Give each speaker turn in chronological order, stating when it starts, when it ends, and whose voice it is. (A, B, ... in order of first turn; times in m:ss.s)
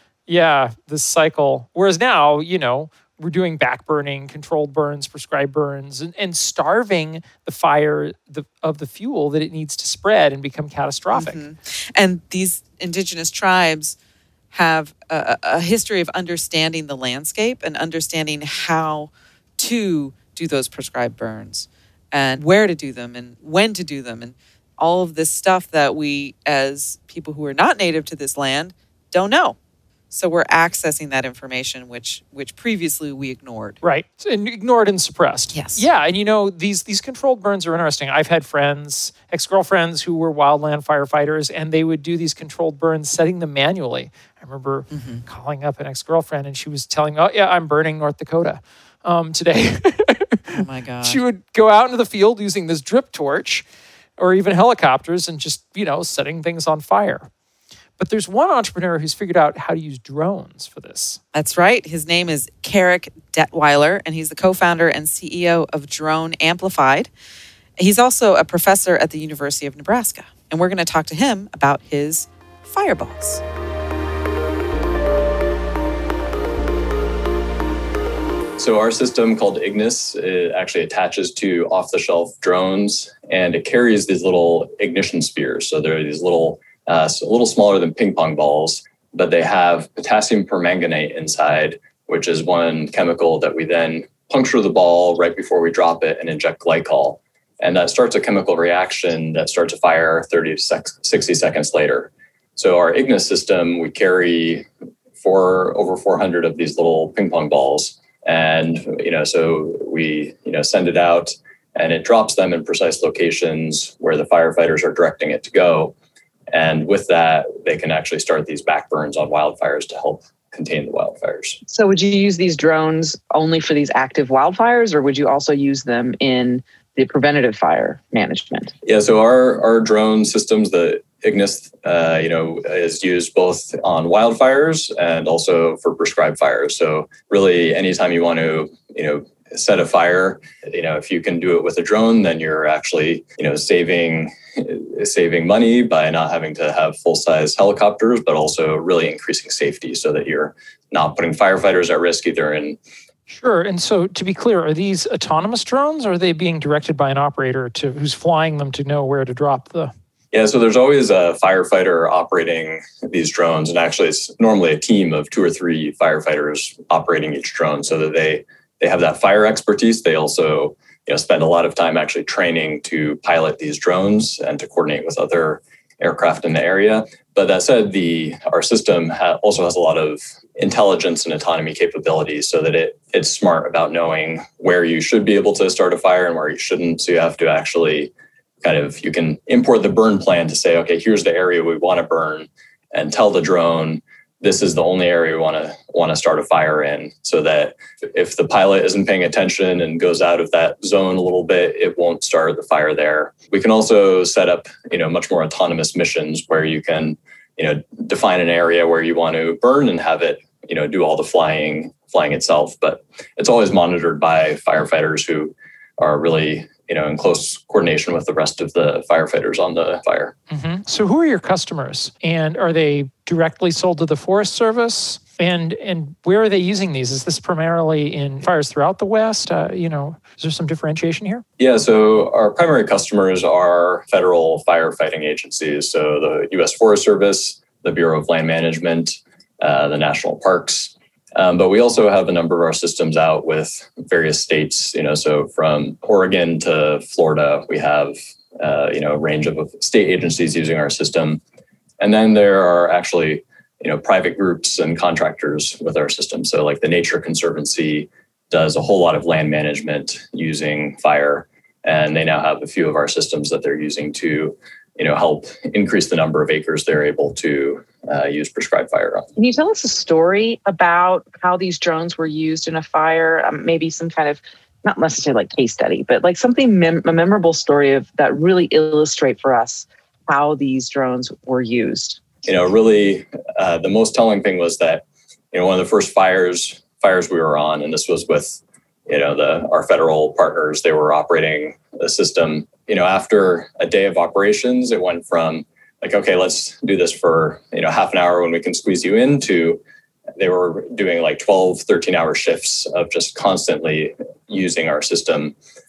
0:00.3-0:11.4 A
0:11.1-0:14.0 B
0:14.5-0:29.6 B
0:30.1-0:33.8 B
0:33.8-0:53.6 A
0:35.5-0:35.8 B
0:44.9-0:45.2 B
0:50.5-0:51.2 B
0:54.2-0:57.3 A
0:58.0-1:01.2 A
1:01.3-1:07.1 B
1:07.8-1:13.4 B
1:18.6-1:44.6 C
1:45.2-1:55.9 C
1:56.5-2:01.6 C
2:01.7-2:08.7 D
2:08.8-2:32.8 C
2:33.3-2:39.9 A
2:40.3-3:08.1 C
3:08.6-3:40.3 C
3:40.5-3:51.4 A
3:51.6-4:11.4 C
4:12.0-4:29.3 C
4:29.4-4:42.2 D
4:42.4-4:59.8 C
5:00.4-5:05.5 C